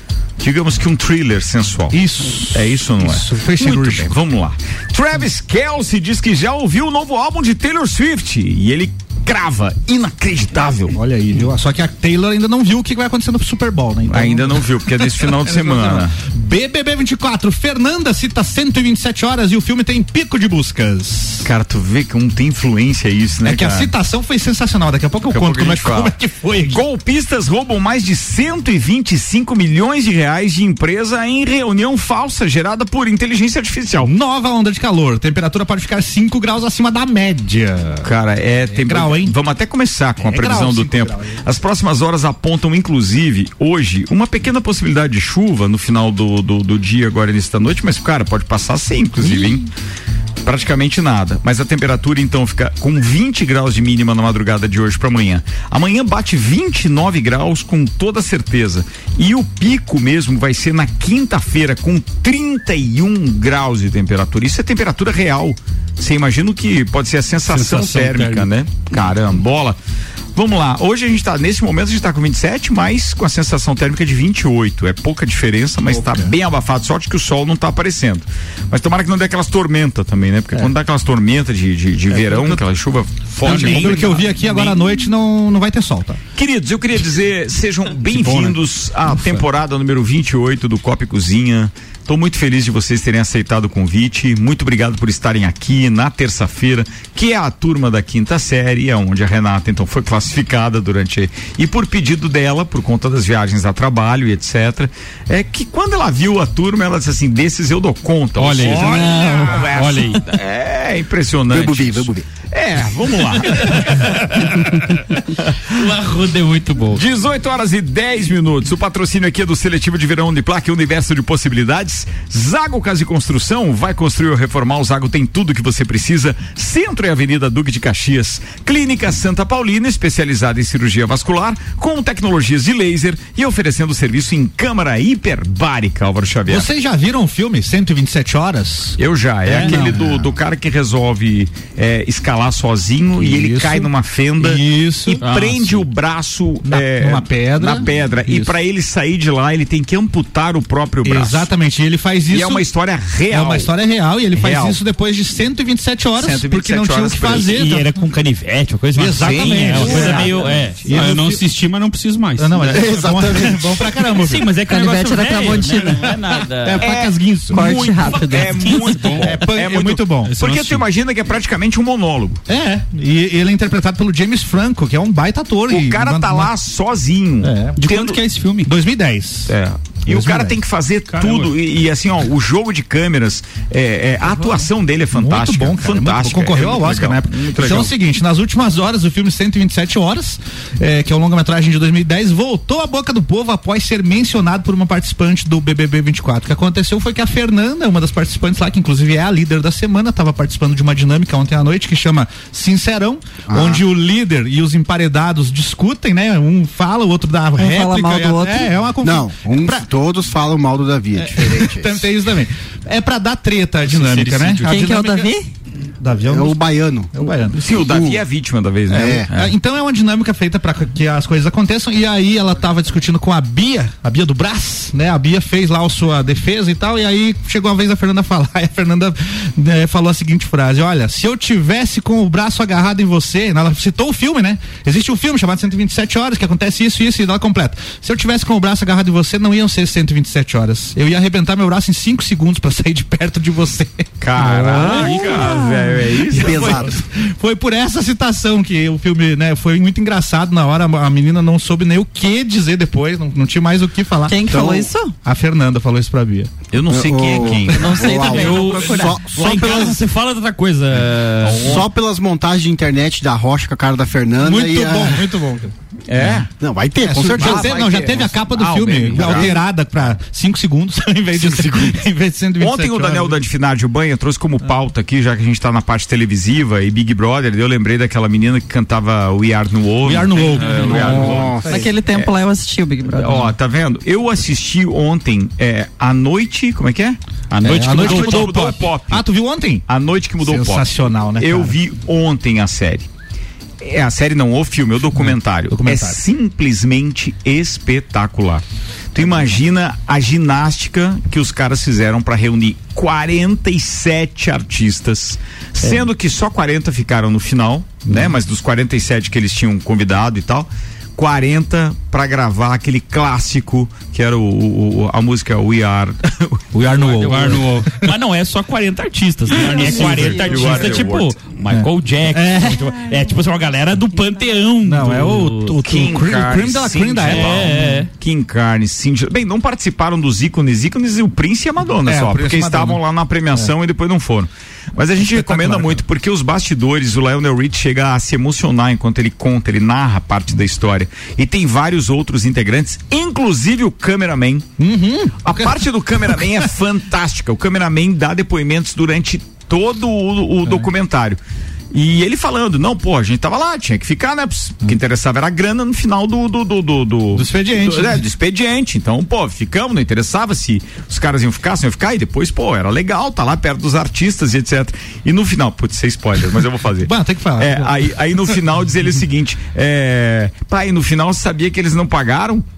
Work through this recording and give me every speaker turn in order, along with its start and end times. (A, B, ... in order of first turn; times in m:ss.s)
0:00.4-0:11.0 A
0:01.9-0:04.1 B
0:10.9-0:21.5 B
0:14.1-0:16.2 A
0:21.4-0:23.9 A
0:23.4-0:26.8 B
0:25.3-0:34.1 A
0:34.0-0:38.1 B
0:38.0-0:49.7 A
0:38.7-0:39.4 B
0:40.2-0:41.4 B
0:49.2-0:49.6 B
0:50.4-1:09.8 A
1:07.4-1:08.5 C
1:10.4-1:24.7 A
1:15.9-1:16.3 B
1:22.1-1:22.6 B
1:23.4-1:24.1 C
1:23.4-1:26.2 B
1:26.4-1:54.0 A
1:28.1-1:28.6 C
1:48.4-1:50.2 C
1:49.0-1:49.4 D
1:51.5-1:52.3 E
1:53.5-1:54.7 D
1:55.7-1:57.0 D
1:56.9-2:16.7 A
2:16.5-2:20.3 B
2:19.0-2:31.5 A
2:23.2-2:25.2 B
2:25.2-2:25.8 D
2:26.6-2:28.5 B
2:31.0-2:32.7 B
2:32.3-2:33.7 A
2:33.3-2:38.0 B
2:34.3-2:34.8 A
2:36.2-2:37.6 A
2:37.5-2:40.8 D
2:39.0-2:41.4 B
2:39.2-2:41.0 A
2:39.7-2:40.3 C
2:40.9-2:43.0 C
2:42.4-2:44.5 B
2:42.6-2:44.0 E
2:44.2-2:46.9 D
2:44.7-2:46.2 F
2:46.6-2:47.9 B
2:46.8-2:52.4 A
2:47.5-2:48.9 F
2:48.0-2:49.1 D
2:48.9-2:49.4 C
2:49.2-2:50.4 B
2:50.2-2:50.8 C
2:52.5-2:56.5 B
2:55.7-2:58.2 A
2:57.4-2:57.8 B
2:57.8-2:58.7 C
2:58.6-2:59.5 B
2:59.5-3:07.9 A
3:00.1-3:00.6 B
3:01.1-3:01.6 C
3:05.1-3:29.9 B
3:23.5-3:23.8 E
3:27.6-3:28.7 F
3:29.0-3:32.0 E
3:31.2-3:35.3 B
3:33.9-3:34.9 C
3:34.7-3:35.5 F
3:36.0-3:36.6 B
3:36.3-3:38.2 E
3:37.1-3:37.6 B
3:37.5-3:39.5 A
3:38.9-3:39.3 E
3:38.9-4:05.7 B
4:04.2-4:06.9 A
4:05.5-4:05.9 F
4:06.3-4:07.0 E
4:06.3-4:16.5 B
4:14.3-4:15.1 F
4:14.5-4:14.8 E
4:16.7-4:18.4 A
4:16.9-4:20.0 E
4:17.6-4:19.2 F
4:18.3-4:21.8 D
4:21.5-4:21.8 A
4:21.5-4:25.3 E
4:24.4-4:33.4 B
4:26.1-4:26.5 A
4:26.6-4:27.9 E
4:27.2-4:29.6 A
4:29.2-4:29.6 E
4:32.6-4:42.3 A
4:40.0-4:41.9 B
4:40.6-4:41.4 C
4:40.9-4:41.9 E
4:41.7-4:43.5 F
4:43.1-4:49.2 A
4:47.6-4:48.5 D
4:47.6-4:49.8 B
4:48.0-4:48.2 C
4:49.9-4:53.1 A
4:50.4-4:51.8 B
4:53.8-5:17.3 A
4:55.2-4:56.2 B
5:16.7-5:17.9 B
5:17.2-5:18.1 C
5:17.2-5:25.8 D
5:19.6-5:20.9 C
5:19.6-5:20.9 B
5:19.7-5:21.4 A
5:21.7-5:23.0 B
5:24.8-5:28.1 B
5:25.8-5:44.7 A
5:27.3-5:28.1 D
5:32.0-5:33.0 B
5:35.2-5:36.0 B
5:44.8-5:46.7 B
5:45.4-5:51.4 A
5:51.9-6:12.6 A
5:57.3-5:58.2 B
6:07.0-6:08.1 B